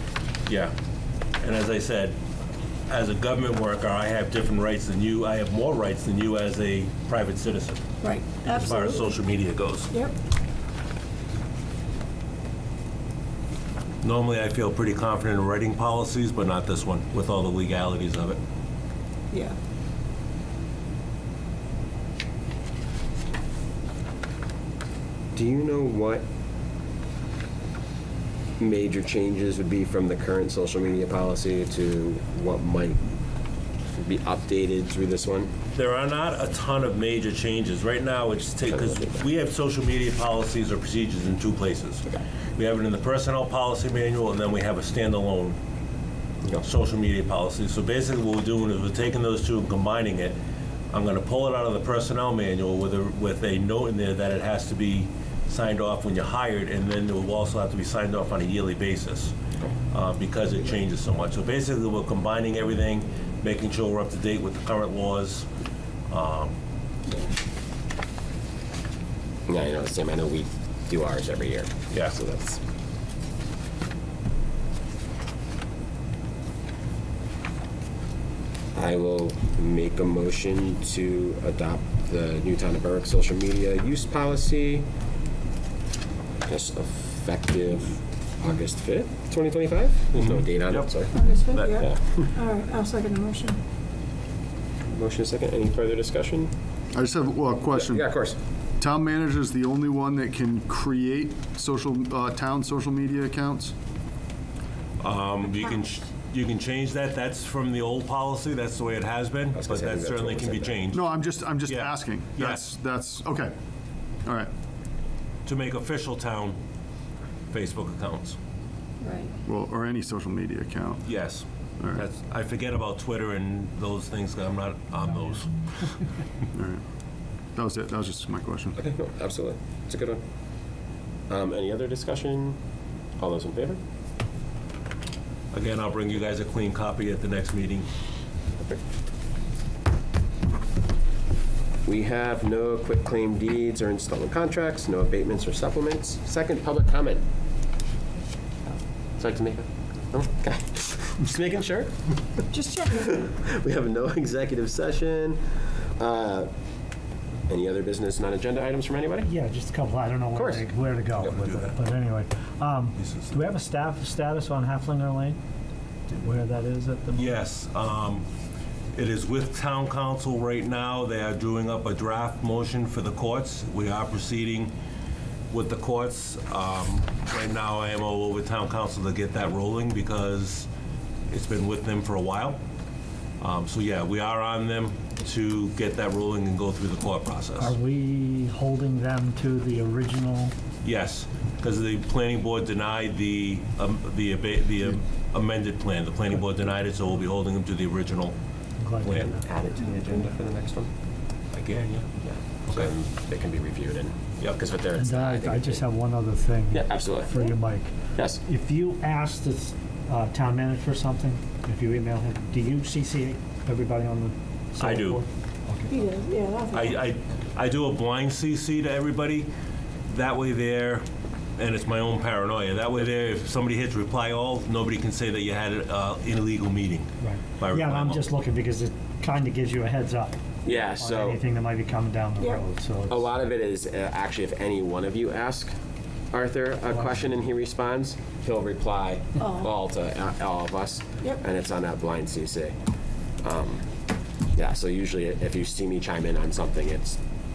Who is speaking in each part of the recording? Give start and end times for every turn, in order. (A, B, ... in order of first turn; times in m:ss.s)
0:00.5-0:00.7 A
0:01.4-0:02.2 A
0:02.9-0:07.8 A
0:08.0-0:09.1 B
0:08.5-0:09.9 A
0:14.0-0:18.4 A
0:19.3-0:19.6 B
0:25.3-0:26.2 C
0:28.6-0:33.0 C
0:34.0-0:35.5 C
0:35.7-0:45.6 A
0:38.7-0:39.2 C
0:46.6-0:50.4 A
0:50.9-0:59.3 A
0:59.9-1:05.5 A
1:06.1-1:06.6 A
1:09.5-1:12.6 C
1:11.9-1:12.2 A
1:18.8-1:24.9 C
1:26.5-1:31.1 C
1:30.2-1:31.7 A
1:31.1-1:33.6 B
1:31.8-1:32.3 C
1:34.9-1:36.5 C
1:36.9-1:38.1 D
1:37.8-1:38.4 C
1:38.8-1:43.8 D
1:45.0-1:51.1 A
1:49.6-1:50.8 C
1:50.9-1:53.6 D
1:51.6-1:52.7 A
1:54.2-1:54.5 D
1:55.4-1:56.6 A
1:57.5-1:58.4 A
1:59.0-1:59.3 B
1:59.4-2:01.1 D
2:01.0-2:05.6 A
2:06.6-2:06.8 D
2:07.6-2:08.8 D
2:08.8-2:10.2 C
2:11.3-2:12.6 C
2:13.2-2:13.8 C
2:15.5-2:17.9 A
2:21.8-2:27.2 C
2:29.2-2:36.5 C
2:32.5-2:33.0 B
2:37.5-2:39.3 C
2:39.2-2:45.4 E
2:40.4-2:40.6 C
2:41.3-2:41.7 A
2:43.0-2:43.3 A
2:46.1-2:47.4 E
2:47.2-2:48.3 A
2:48.9-2:54.7 A
2:55.5-3:00.7 A
3:01.3-3:02.6 A
3:03.4-3:07.7 A
3:07.6-3:10.5 E
3:10.8-3:18.4 A
3:18.8-3:19.5 E
3:19.0-3:19.3 A
3:19.2-3:20.9 C
3:21.5-3:22.1 A
3:22.2-3:25.8 C
3:25.0-3:36.1 E
3:26.7-3:27.5 C
3:28.2-3:28.4 C
3:34.8-3:35.2 A
3:35.9-3:37.0 B
3:36.7-3:39.5 A
3:40.1-3:41.0 A
3:41.6-3:48.2 A
3:47.2-3:53.3 E
3:50.6-3:51.4 C
3:53.1-3:55.7 C
3:56.3-4:02.8 C
3:59.4-3:59.7 B
4:03.4-4:03.8 C
4:04.5-4:07.2 C